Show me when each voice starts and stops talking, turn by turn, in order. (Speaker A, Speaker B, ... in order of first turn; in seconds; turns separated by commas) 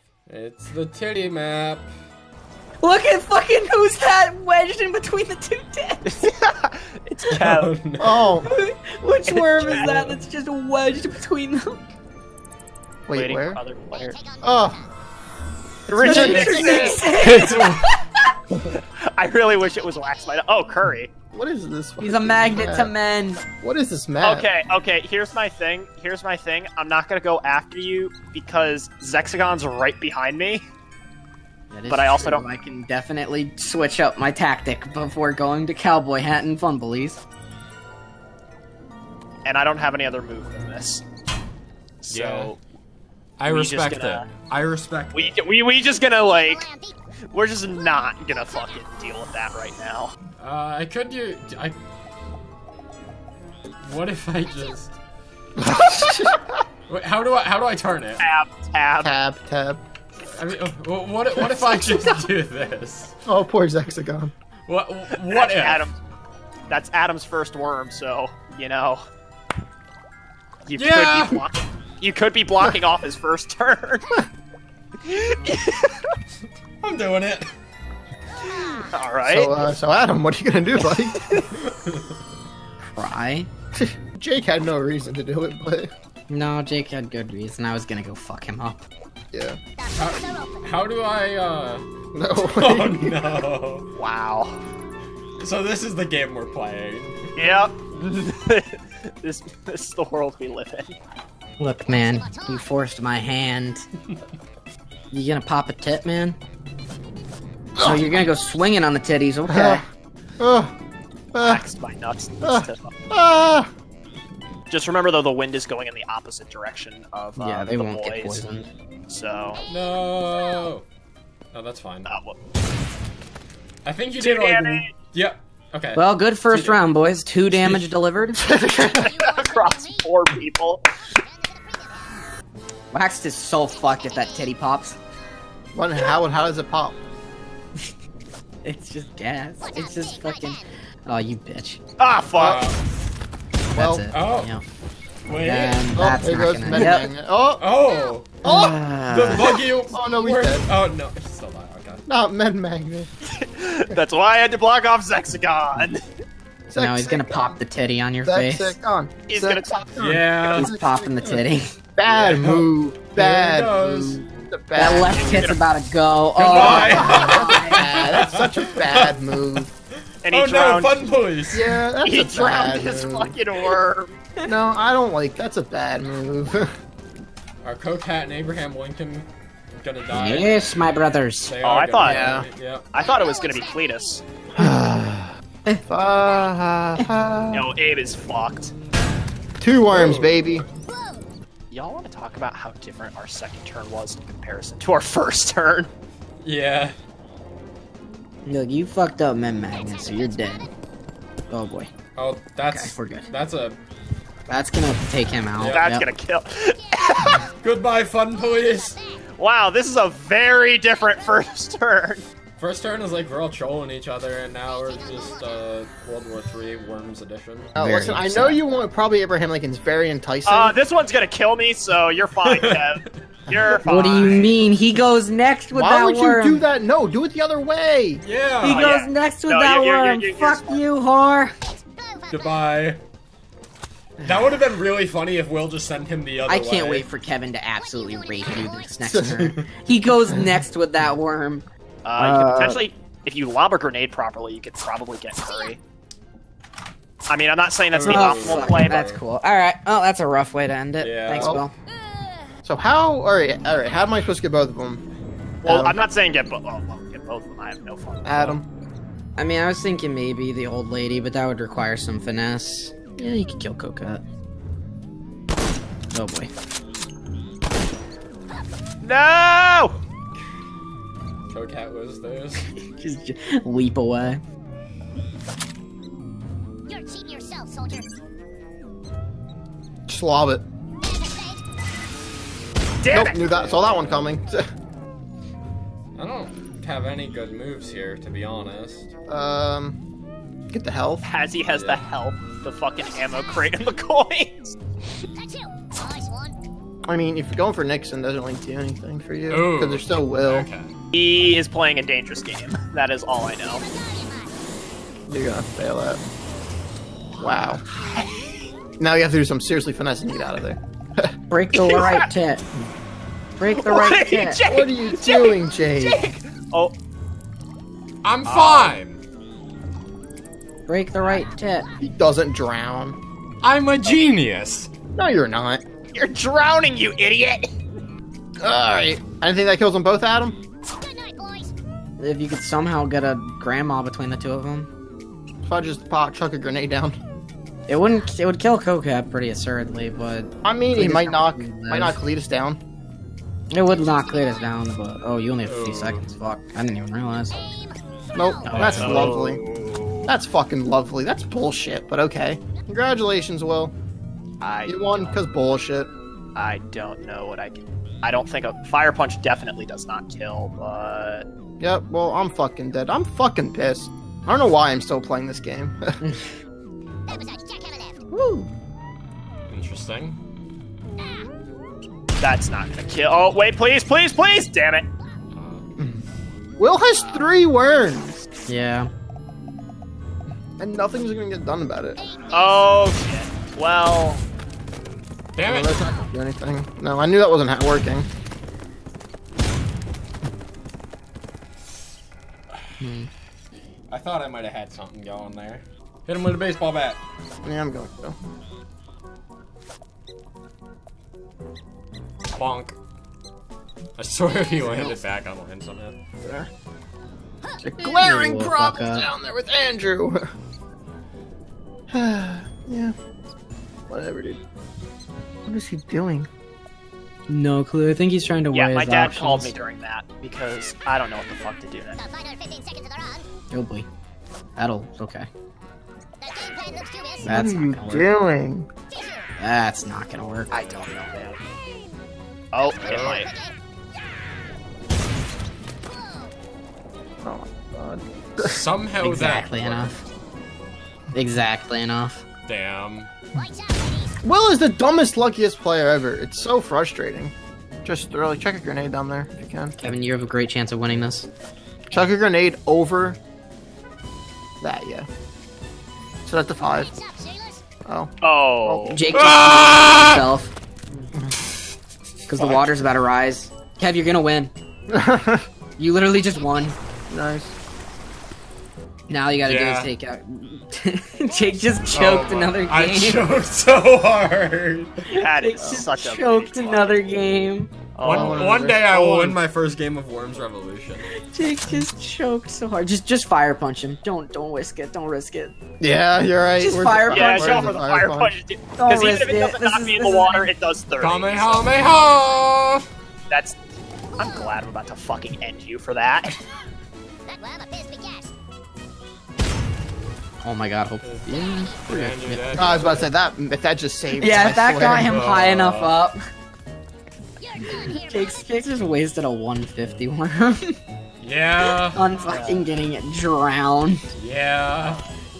Speaker A: 0.3-1.9, Speaker B: 2.8-6.3, Speaker C: 6.1-7.7, Speaker A: 7.3-8.3, Speaker D: 8.0-8.5, Speaker B: 8.4-11.8, Speaker C: 9.3-9.9, Speaker A: 9.8-10.2, Speaker D: 13.1-13.6, Speaker C: 13.1-14.2, Speaker D: 14.4-14.8, Speaker C: 15.9-17.0, Speaker B: 15.9-18.0, Speaker D: 16.0-17.0, Speaker A: 16.1-17.9, Speaker C: 18.8-21.1, Speaker D: 21.3-22.9, Speaker B: 22.0-23.4, Speaker D: 23.6-24.5, Speaker C: 24.2-30.7, Speaker B: 31.7-37.2, Speaker C: 31.9-32.5, Speaker C: 39.5-41.0, Speaker C: 42.0-42.6, Speaker A: 42.1-42.5, Speaker A: 43.4-45.4, Speaker C: 43.5-44.3, Speaker C: 45.1-46.7, Speaker E: 46.7-46.9, Speaker C: 47.3-50.1, Speaker A: 50.4-51.8, Speaker A: 53.8-55.0, Speaker D: 55.6-56.6, Speaker A: 56.9-58.2, Speaker C: 58.2-59.1, Speaker D: 59.0-59.8, Speaker A: 60.2-63.2, Speaker D: 61.4-62.1, Speaker D: 63.3-64.3, Speaker A: 64.7-65.9, Speaker C: 65.3-66.0, Speaker C: 66.7-69.0, Speaker C: 70.7-74.2, Speaker A: 70.8-71.4, Speaker C: 75.0-76.1, Speaker A: 76.8-77.5, Speaker C: 78.5-79.7, Speaker D: 79.3-81.2, Speaker C: 80.8-81.5, Speaker A: 81.5-82.1, Speaker B: 82.8-83.5, Speaker D: 83.8-85.9, Speaker B: 86.3-88.8, Speaker D: 89.3-89.6, Speaker A: 89.9-91.8, Speaker D: 92.1-93.2, Speaker A: 92.5-93.9, Speaker C: 94.0-94.6, Speaker A: 95.4-97.2, Speaker C: 97.4-101.0, Speaker B: 101.6-103.8, Speaker B: 105.1-106.4, Speaker D: 107.8-108.2, Speaker B: 107.8-109.8, Speaker D: 109.5-109.8, Speaker D: 110.4-110.7, Speaker D: 111.3-111.7, Speaker C: 111.4-112.9, Speaker D: 112.4-113.7, Speaker C: 114.7-118.5, Speaker B: 117.4-118.7, Speaker C: 119.1-119.6, Speaker A: 119.7-120.9, Speaker A: 121.5-122.1, Speaker C: 122.1-122.4, Speaker A: 123.8-126.8, Speaker C: 124.2-124.9, Speaker B: 126.0-128.4, Speaker A: 127.5-127.9, Speaker D: 128.4-129.1, Speaker C: 129.0-130.8, Speaker E: 129.2-129.8, Speaker B: 132.9-135.0, Speaker D: 135.7-137.0, Speaker B: 138.6-141.8, Speaker C: 142.0-142.7, Speaker A: 142.4-142.8, Speaker B: 143.7-144.6, Speaker D: 143.8-144.0, Speaker A: 144.1-144.5, Speaker A: 145.3-145.9, Speaker B: 145.4-147.1, Speaker D: 146.0-147.7, Speaker A: 146.7-147.0, Speaker A: 147.6-148.4, Speaker D: 148.4-148.8, Speaker B: 148.4-149.6, Speaker A: 148.9-152.0, Speaker D: 149.9-150.7, Speaker D: 152.1-153.1, Speaker C: 153.3-156.0, Speaker D: 156.7-157.6, Speaker B: 156.8-158.8, Speaker D: 158.2-159.7, Speaker C: 159.3-160.3, Speaker A: 160.0-160.7, Speaker D: 160.5-161.4, Speaker B: 160.6-161.7, Speaker D: 162.0-165.4, Speaker A: 162.1-164.3, Speaker B: 164.8-167.8, Speaker C: 165.1-165.6, Speaker A: 166.4-169.7, Speaker D: 166.6-169.7, Speaker C: 170.2-171.1, Speaker A: 170.3-171.8, Speaker D: 171.5-173.3, Speaker C: 172.0-174.1, Speaker D: 174.5-176.7, Speaker A: 177.6-180.6, Speaker B: 180.1-181.6, Speaker A: 181.4-182.9, Speaker C: 181.6-182.3, Speaker D: 182.0-182.5, Speaker C: 182.9-184.2, Speaker D: 184.6-185.3, Speaker D: 185.9-187.7, Speaker C: 187.5-188.7, Speaker D: 189.6-190.7, Speaker A: 189.9-190.6, Speaker C: 191.7-195.9, Speaker A: 196.4-197.0, Speaker B: 198.5-200.7, Speaker B: 201.5-201.9, Speaker A: 202.2-203.8, Speaker B: 202.7-203.3, Speaker B: 204.5-206.1, Speaker A: 205.5-205.9, Speaker C: 205.7-207.5, Speaker A: 207.6-209.0, Speaker C: 209.4-212.2, Speaker A: 212.6-218.3, Speaker D: 217.8-220.8, Speaker B: 217.8-218.6, Speaker C: 220.5-224.5, Speaker A: 222.4-223.1, Speaker B: 223.8-226.6, Speaker A: 223.9-224.6, Speaker D: 225.7-228.2, Speaker A: 228.2-228.9, Speaker B: 228.6-231.5, Speaker C: 228.6-230.8, Speaker E: 231.8-232.3, Speaker A: 232.3-233.0, Speaker A: 234.2-237.1, Speaker B: 236.5-241.7, Speaker D: 239.1-239.4, Speaker A: 239.3-239.7, Speaker C: 242.1-245.8, Speaker B: 242.2-242.8, Speaker C: 247.3-249.1, Speaker A: 247.9-249.2, Speaker B: 248.0-251.7, Speaker A: 251.0-251.6, Speaker D: 251.3-251.7, Speaker D: 252.6-255.0, Speaker D: 255.6-256.0, Speaker C: 255.6-258.6, Speaker D: 258.2-258.6, Speaker B: 259.4-264.2, Speaker B: 266.1-266.5, Speaker C: 269.0-269.9, Speaker A: 271.5-272.6, Speaker B: 272.8-274.4, Speaker E: 276.9-278.1, Speaker D: 280.1-280.6, Speaker E: 281.2-281.6, Speaker C: 283.0-283.4, Speaker D: 283.1-284.7, Speaker A: 283.3-284.4, Speaker A: 286.1-289.1, Speaker D: 289.3-290.0, Speaker D: 290.7-291.3, Speaker C: 291.2-294.8, Speaker A: 291.7-292.1, Speaker E: 295.4-296.5, Speaker D: 297.1-300.7, Speaker A: 299.5-300.9, Speaker C: 301.1-303.8, Speaker E: 303.9-304.5, Speaker D: 305.3-306.2, Speaker D: 307.4-307.8, Speaker C: 307.4-308.5, Speaker D: 309.0-311.3, Speaker B: 311.5-312.6, Speaker C: 311.7-312.3, Speaker B: 313.6-314.6, Speaker C: 313.7-316.9, Speaker D: 314.7-316.2, Speaker A: 318.2-319.2, Speaker C: 318.5-318.9, Speaker B: 320.9-321.9, Speaker D: 322.0-323.2, Speaker A: 323.6-324.9, Speaker D: 325.2-325.8, Speaker C: 326.1-327.7, Speaker D: 328.6-330.6, Speaker E: 331.0-331.7, Speaker B: 332.2-334.9, Speaker D: 335.6-337.2, Speaker B: 337.9-342.2, Speaker D: 340.6-342.8, Speaker B: 343.7-347.7, Speaker A: 345.6-346.3, Speaker D: 348.4-349.6, Speaker B: 348.7-349.0, Speaker A: 348.7-349.6, Speaker C: 349.0-350.0, Speaker D: 350.3-353.9, Speaker C: 354.6-355.4, Speaker D: 354.9-356.1, Speaker C: 356.6-361.4, Speaker D: 361.8-366.2, Speaker E: 367.3-368.2, Speaker A: 369.7-370.4, Speaker C: 372.4-375.1, Speaker A: 375.5-375.9, Speaker D: 376.8-378.4, Speaker B: 378.7-379.1, Speaker D: 380.8-382.2, Speaker C: 382.5-384.4, Speaker A: 385.6-386.0, Speaker D: 385.6-388.3, Speaker B: 393.0-393.3, Speaker A: 394.1-397.2, Speaker D: 397.6-398.4, Speaker A: 402.5-403.0, Speaker A: 404.2-406.2, Speaker D: 406.4-406.7, Speaker D: 407.8-410.5, Speaker B: 408.2-409.3, Speaker D: 412.1-413.1, Speaker D: 414.1-414.6, Speaker D: 415.6-416.5, Speaker B: 417.5-419.7, Speaker C: 418.7-422.2, Speaker E: 422.3-423.4, Speaker B: 423.7-424.1, Speaker B: 424.8-425.5, Speaker E: 426.4-427.4, Speaker D: 427.4-428.9, Speaker B: 427.4-428.3, Speaker B: 429.6-431.3, Speaker C: 430.8-431.6, Speaker C: 432.7-433.5, Speaker A: 433.0-433.5, Speaker E: 436.2-436.5, Speaker D: 437.4-438.8, Speaker A: 438.6-440.2, Speaker B: 439.2-440.2, Speaker B: 441.3-442.5, Speaker A: 442.7-443.3, Speaker E: 443.6-444.3, Speaker D: 444.4-447.5, Speaker D: 448.1-449.9, Speaker B: 450.0-451.5, Speaker D: 452.1-453.4, Speaker D: 454.8-455.3, Speaker D: 456.4-457.1, Speaker E: 457.1-457.8, Speaker D: 458.1-458.3, Speaker C: 458.4-459.2, Speaker D: 458.8-459.2, Speaker B: 459.1-460.7, Speaker A: 459.3-460.5, Speaker B: 462.5-464.7, Speaker A: 462.6-462.8, Speaker D: 465.1-465.6, Speaker B: 466.0-467.0, Speaker D: 467.3-467.7, Speaker B: 469.3-473.5, Speaker A: 469.6-470.1, Speaker A: 472.1-475.1, Speaker C: 475.3-477.2, Speaker B: 475.3-478.1, Speaker D: 475.8-476.1, Speaker C: 478.1-478.8, Speaker D: 478.2-479.6, Speaker A: 478.2-481.3, Speaker B: 481.4-485.7, Speaker D: 486.0-488.6, Speaker B: 486.8-488.0, Speaker C: 487.3-491.9, Speaker B: 489.0-490.7, Speaker A: 491.2-493.1, Speaker C: 493.5-493.8, Speaker C: 494.4-496.6, Speaker E: 497.5-498.5, Speaker B: 500.6-502.9, Speaker A: 501.2-501.6, Speaker A: 502.1-503.3, Speaker D: 502.8-505.3, Speaker B: 504.4-506.4, Speaker A: 504.8-506.2, Speaker E: 507.7-508.4, Speaker B: 508.1-511.0, Speaker A: 511.4-512.2, Speaker B: 512.1-514.2, Speaker C: 512.4-512.9, Speaker A: 514.4-515.2